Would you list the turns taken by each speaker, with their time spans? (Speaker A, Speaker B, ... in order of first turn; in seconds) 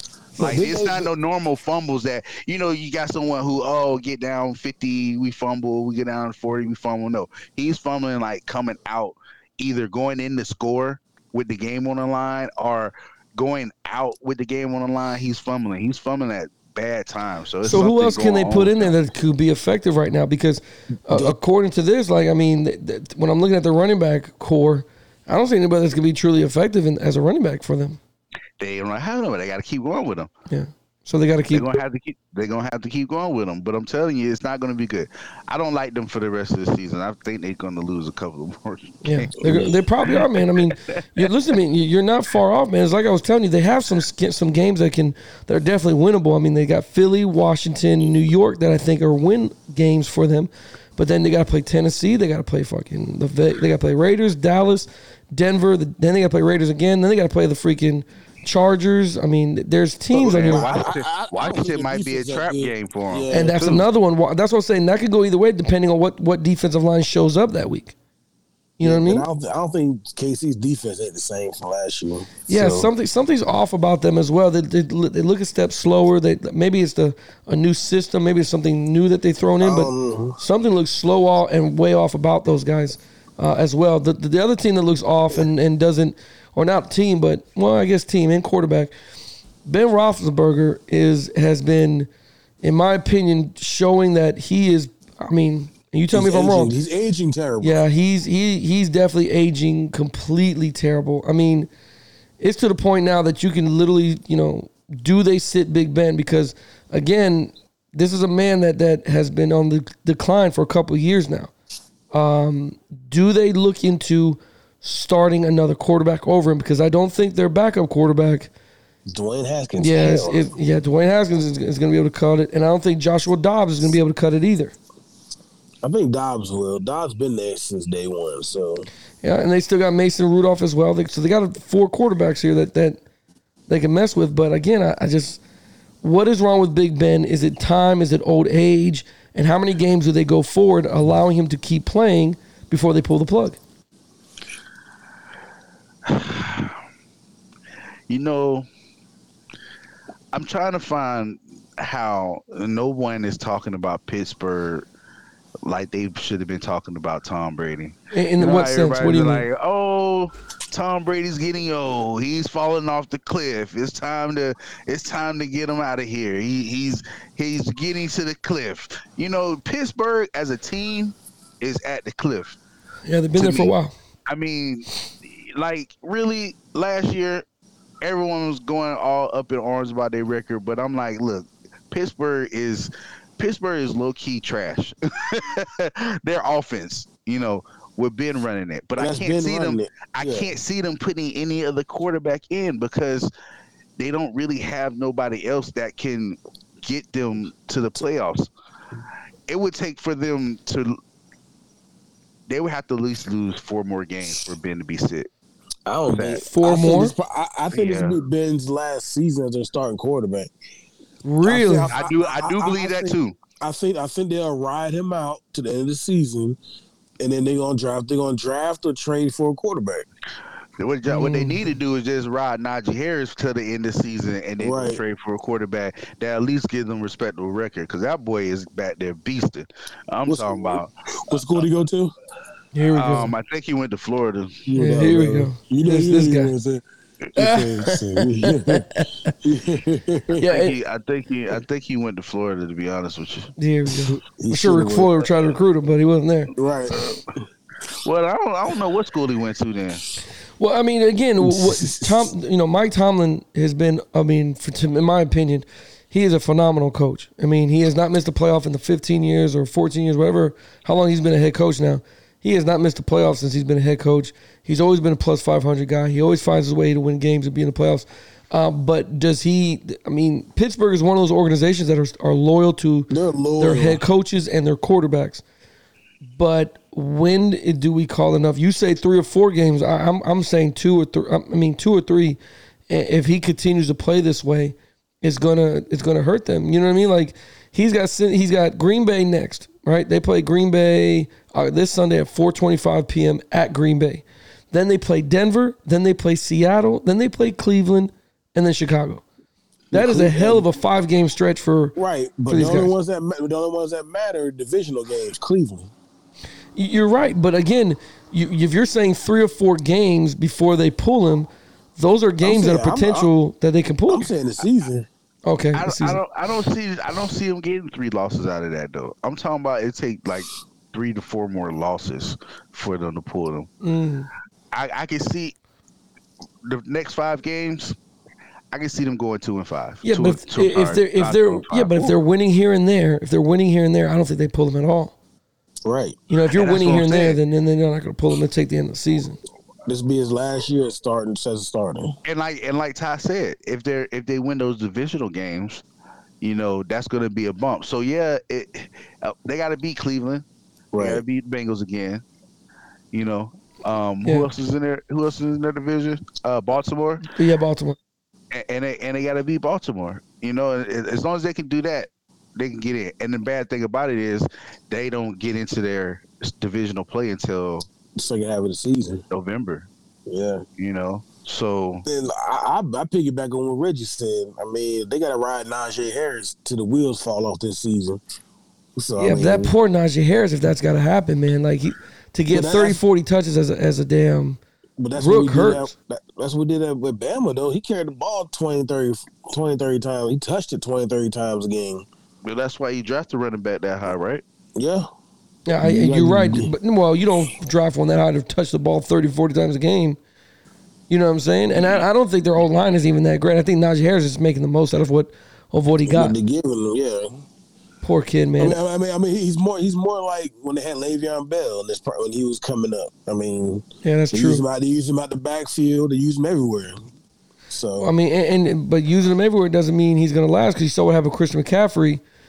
Speaker A: 0.4-1.1, 21.1-21.4, 39.4-39.8, 60.1-63.8, 68.8-72.9, 79.6-80.4, 96.1-97.8, 119.1-120.5, 125.8-128.9, 189.0-190.5, 205.8-210.5, 211.4-216.6, 217.2-220.1, 224.6-225.0, 230.2-232.1, 234.7-236.8, 237.3-238.9, 239.4-240.4, 244.1-245.2, 246.5-247.0, 251.4-252.3, 273.1-274.0, 299.9-300.6, 301.9-305.9, 312.4-313.3, 314.1-315.1, 335.8-336.2, 339.9-342.1, 350.9-351.2, 368.2-369.2, 370.3-370.6, 372.0-378.2, 378.9-379.7, 382.5-383.0, 385.0-392.1, 394.8-395.1, 395.8-396.7, 406.1-407.4, 408.6-417.0, 417.7-418.1
Speaker B: 0.4-18.9, 28.6-30.3, 31.5-39.6, 40.4-41.2, 60.3-63.8, 146.1-146.8, 148.1-148.7, 150.3-154.8, 155.6-172.6, 173.3-173.7, 174.3-177.4, 178.0-193.3, 194.0-198.5, 199.5-201.0, 202.5-205.3, 206.1-206.4, 207.7-208.2, 211.9-213.4, 220.8-230.9, 232.9-234.6, 240.4-243.5, 246.9-247.2, 248.0-250.0, 315.7-323.7, 324.7-325.5, 326.6-327.9, 328.7-332.1, 336.5-337.4, 342.2-345.8, 346.4-350.4, 350.9-352.2, 353.1-357.3, 358.5-367.9, 369.3-369.9, 370.8-372.0, 392.4-394.4, 401.7-402.0
Speaker C: 17.6-28.0, 30.5-31.7, 39.0-60.7, 63.3-67.9, 68.8-69.3, 72.5-88.9, 89.7-92.1, 92.6-96.7, 97.6-101.7, 102.4-111.5, 112.1-118.5, 119.8-124.7, 129.2-133.0, 133.7-135.4, 136.0-143.6, 158.1-159.4, 173.1-173.9, 206.4-207.1, 211.2-211.9, 221.1-221.7, 232.7-233.3, 234.7-236.5, 237.3-239.3, 240.4-240.7, 243.6-246.5, 250.6-275.4, 276.2-299.2, 299.9-301.9, 302.5-302.9, 306.8-314.3, 315.4-316.2, 323.8-324.3, 330.0-335.1, 336.3-339.4, 357.3-358.0, 379.2-384.6, 385.1-385.9, 395.7-400.2, 401.1-406.4, 408.0-408.8, 414.0-414.6, 418.0-422.2